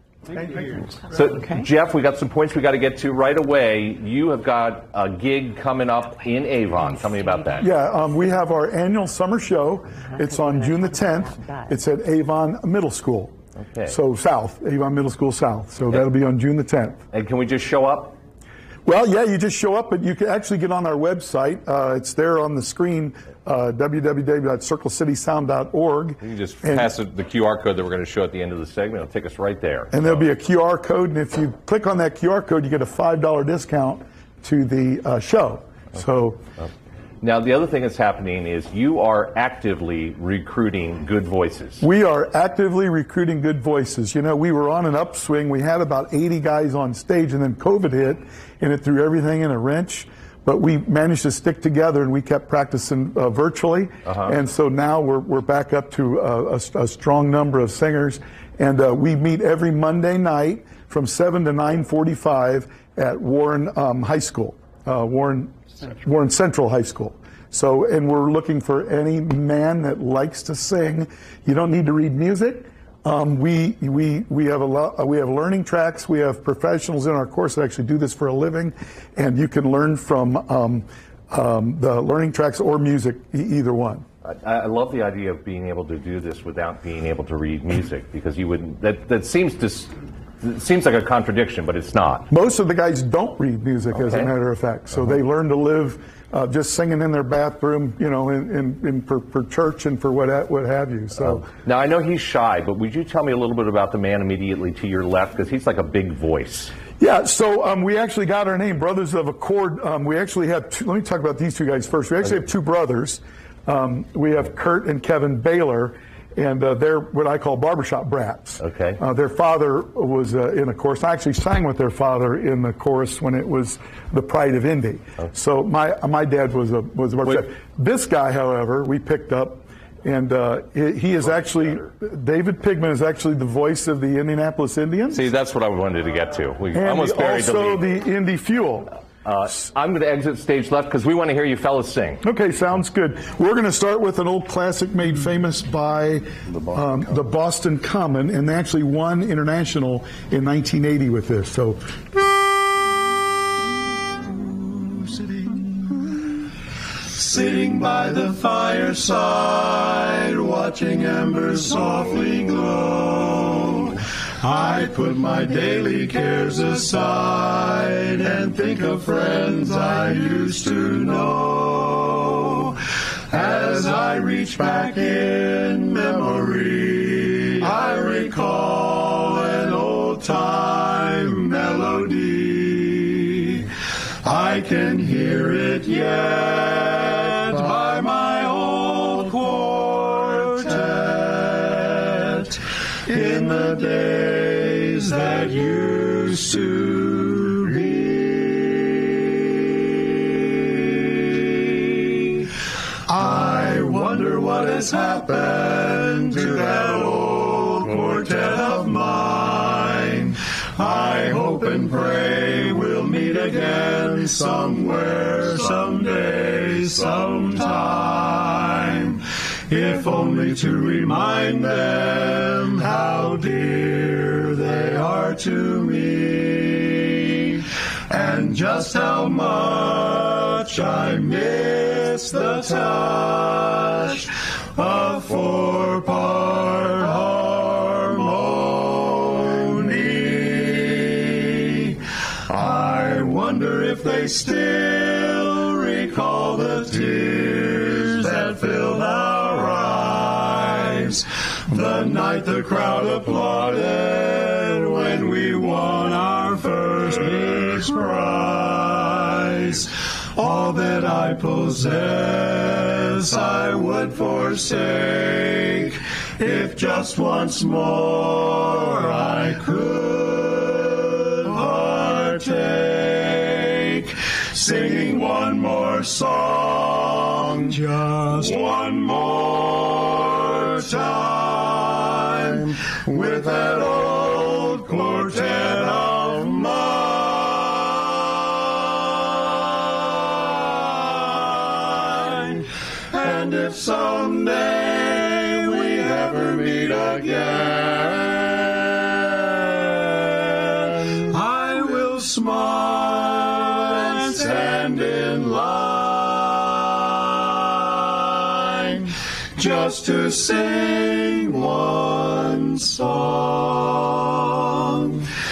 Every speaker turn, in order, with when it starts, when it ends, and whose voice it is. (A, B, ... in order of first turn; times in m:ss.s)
0:01.0-0:07.7 A
0:07.6-0:13.3 B
0:13.6-0:14.0 A
0:13.9-0:17.0 B
0:17.1-0:18.2 A
0:18.8-0:26.9 B
0:26.2-0:30.3 A
0:29.9-0:36.4 B
0:37.2-0:41.8 A
0:41.8-1:24.0 B
1:24.2-1:32.3 A
1:32.3-1:41.5 B
1:33.9-1:34.3 A
1:41.2-1:46.7 A
1:47.0-2:15.3 B
1:58.6-1:59.0 A
2:15.1-2:17.8 A
2:16.7-2:18.9 B
2:19.2-2:22.2 A
2:22.2-2:31.8 B
2:34.6-2:35.6 C
2:37.1-3:03.7 C
3:04.2-3:22.5 C
3:23.1-5:15.2 C